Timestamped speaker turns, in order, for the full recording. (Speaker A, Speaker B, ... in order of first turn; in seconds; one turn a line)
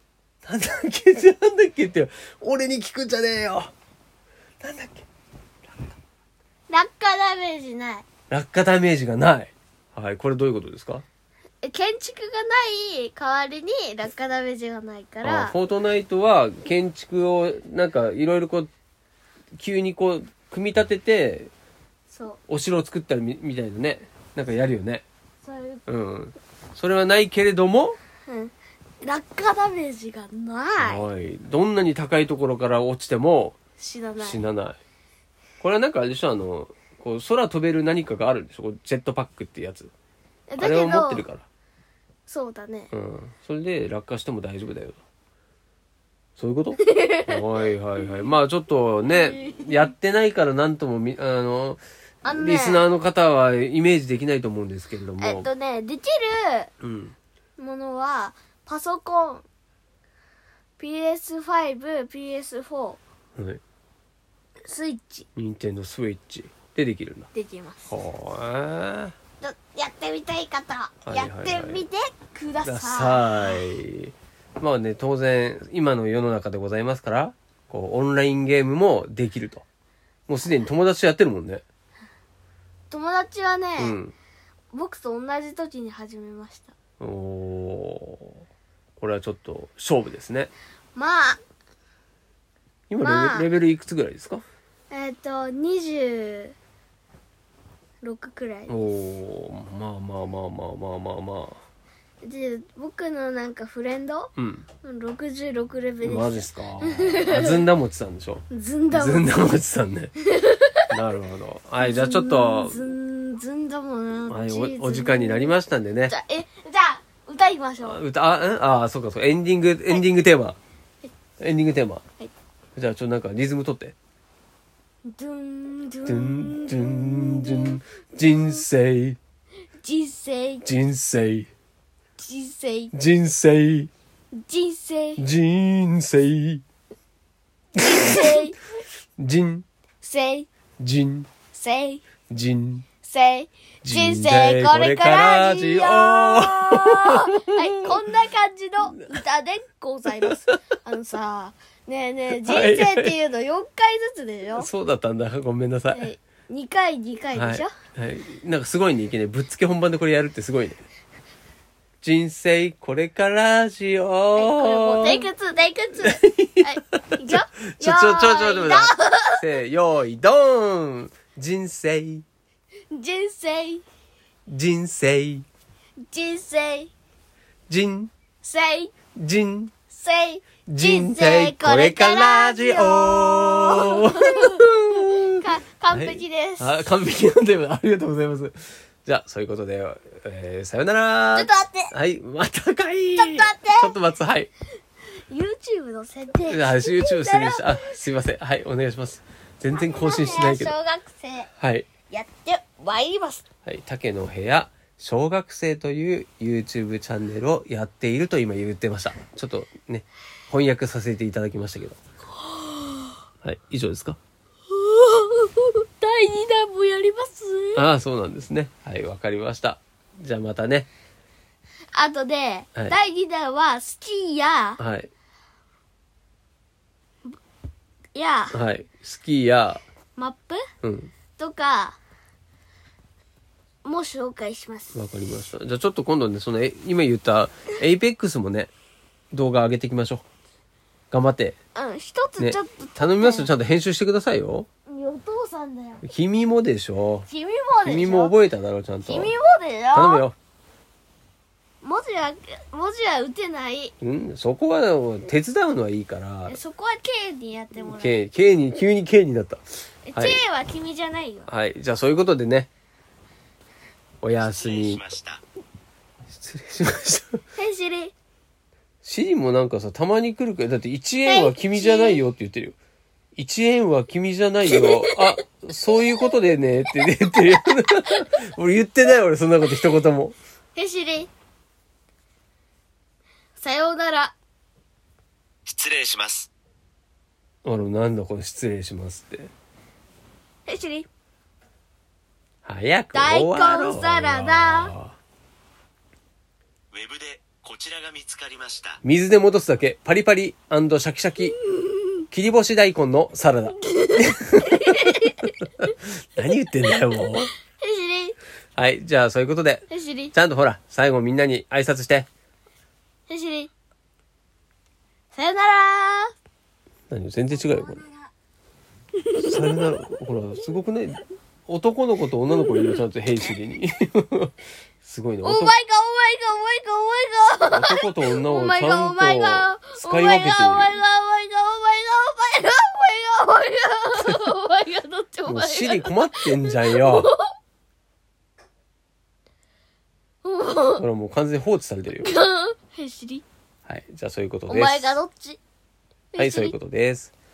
Speaker A: 0.5-3.7
Speaker A: 4.6-5.1
Speaker B: 6.7-8.1
Speaker A: 8.3-11.1
Speaker B: 11.6-15.6
Speaker A: 15.2-18.7
Speaker A: 19.6-21.5
Speaker B: 22.1-22.4
Speaker A: 22.5-25.1
Speaker B: 25.4-25.8
Speaker A: 25.9-28.0
Speaker B: 28.3-31.1
Speaker A: 30.8-33.6
Speaker B: 33.8-34.4
Speaker A: 34.2-34.8
Speaker A: 35.6-39.9
Speaker B: 40.5-41.2
Speaker A: 40.6-41.5
Speaker B: 42.3-42.9
Speaker A: 42.9-45.0
Speaker A: 46.4-55.5
Speaker B: 46.8-47.4
Speaker B: 49.1-49.7
Speaker B: 52.2-52.9
Speaker B: 55.2-56.7
Speaker A: 56.8-57.1
Speaker B: 57.6-59.5
Speaker B: 60.8-63.0
Speaker B: 64.7-65.3
Speaker A: 65.3-67.3
Speaker B: 67.3-67.9
Speaker A: 67.9-69.2
Speaker B: 69.4-73.4
Speaker A: 71.0-71.9
Speaker A: 72.7-79.7
Speaker A: 80.3-81.6
Speaker B: 82.9-84.0
Speaker A: 83.8-84.1
Speaker B: 84.7-86.7
Speaker A: 87.0-88.4
Speaker A: 89.0-90.5
Speaker B: 91.0-91.4
Speaker A: 92.9-94.4
Speaker B: 93.0-93.5
Speaker B: 94.9-96.5
Speaker B: 98.0-98.8
Speaker A: 98.7-101.6
Speaker B: 102.2-107.6
Speaker A: 104.4-104.7
Speaker A: 106.0-110.1
Speaker B: 108.5-109.3
Speaker B: 110.3-110.9
Speaker A: 110.9-112.8
Speaker B: 111.8-115.5
Speaker A: 114.3-116.2
Speaker B: 116.1-118.0
Speaker A: 117.8-120.6
Speaker A: 121.4-122.0
Speaker A: 122.8-124.0
Speaker B: 125.0-128.6
Speaker A: 126.1-129.2
Speaker B: 129.8-130.7
Speaker A: 130.7-131.5
Speaker B: 132.2-132.9
Speaker A: 132.9-133.9
Speaker B: 134.3-135.2
Speaker A: 135.2-136.6
Speaker B: 137.8-138.6
Speaker A: 137.8-138.3
Speaker A: 139.2-139.7
Speaker B: 140.0-140.5
Speaker A: 140.8-141.3
Speaker B: 141.5-142.0
Speaker A: 142.3-142.9
Speaker B: 143.0-154.7
Speaker A: 143.8-147.3
Speaker A: 152.4-153.1
Speaker A: 154.6-156.1
Speaker B: 155.9-157.7
Speaker A: 157.3-160.8
Speaker A: 162.0-165.3
Speaker B: 164.4-169.4
Speaker A: 166.1-172.2
Speaker B: 172.9-173.8
Speaker A: 174.5-175.5
Speaker B: 176.1-176.9
Speaker A: 177.7-178.1
Speaker B: 178.4-178.9
Speaker A: 179.2-179.7
Speaker B: 179.9-186.7
Speaker A: 180.7-185.4
Speaker A: 185.9-194.5
Speaker B: 191.3-191.9
Speaker B: 193.2-193.9
Speaker B: 195.3-198.0
Speaker A: 196.5-200.7
Speaker B: 199.7-201.5
Speaker A: 201.6-201.9
Speaker B: 202.1-203.4
Speaker A: 203.7-212.0
Speaker B: 212.5-213.1
Speaker A: 213.4-214.2
Speaker B: 214.7-217.8
Speaker A: 217.8-220.9
Speaker B: 221.9-224.8
Speaker A: 224.8-225.1
Speaker B: 228.2-228.6
Speaker A: 228.5-229.8
Speaker B: 230.2-230.6
Speaker A: 230.8-231.1
Speaker B: 231.4-232.0
Speaker B: 233.8-235.0
Speaker A: 234.9-238.7
Speaker A: 239.3-240.2
Speaker A: 241.1-241.6
Speaker B: 241.8-243.5
Speaker A: 242.4-244.7
Speaker B: 244.9-246.1
Speaker A: 246.0-247.3
Speaker B: 247.3-248.3
Speaker A: 247.8-249.3
Speaker B: 249.1-250.2
Speaker A: 249.9-250.3
Speaker B: 251.8-253.9
Speaker A: 254.0-256.6
Speaker B: 256.5-258.2
Speaker A: 257.8-260.4
Speaker B: 260.1-261.5
Speaker A: 261.5-262.7
Speaker A: 264.2-265.0
Speaker C: 264.6-265.4
Speaker A: 266.3-267.4
Speaker B: 267.6-268.1
Speaker A: 269.0-272.8
Speaker B: 271.3-272.2
Speaker A: 273.4-280.4
Speaker B: 274.7-275.2
Speaker B: 280.8-281.3
Speaker B: 283.6-284.4
Speaker C: 285.7-286.5
Speaker A: 287.6-289.5
Speaker B: 290.7-291.1
Speaker A: 292.6-295.2
Speaker B: 293.1-294.9
Speaker C: 296.9-299.0
Speaker A: 299.0-301.6
Speaker A: 302.3-307.5
Speaker B: 303.9-305.5
Speaker B: 307.8-308.4
Speaker A: 308.8-312.3
Speaker B: 309.9-310.3
Speaker B: 313.3-313.7
Speaker B: 315.3-316.3
Speaker A: 317.1-318.0
Speaker B: 319.2-319.5
Speaker A: 319.4-325.8
Speaker B: 325.4-337.5
Speaker A: 327.7-331.0
Speaker A: 335.4-337.3
Speaker B: 340.4-341.0
Speaker A: 341.0-342.4
Speaker B: 342.2-343.4
Speaker A: 343.9-345.2
Speaker B: 344.7-345.6
Speaker B: 346.3-346.8
Speaker A: 346.4-347.3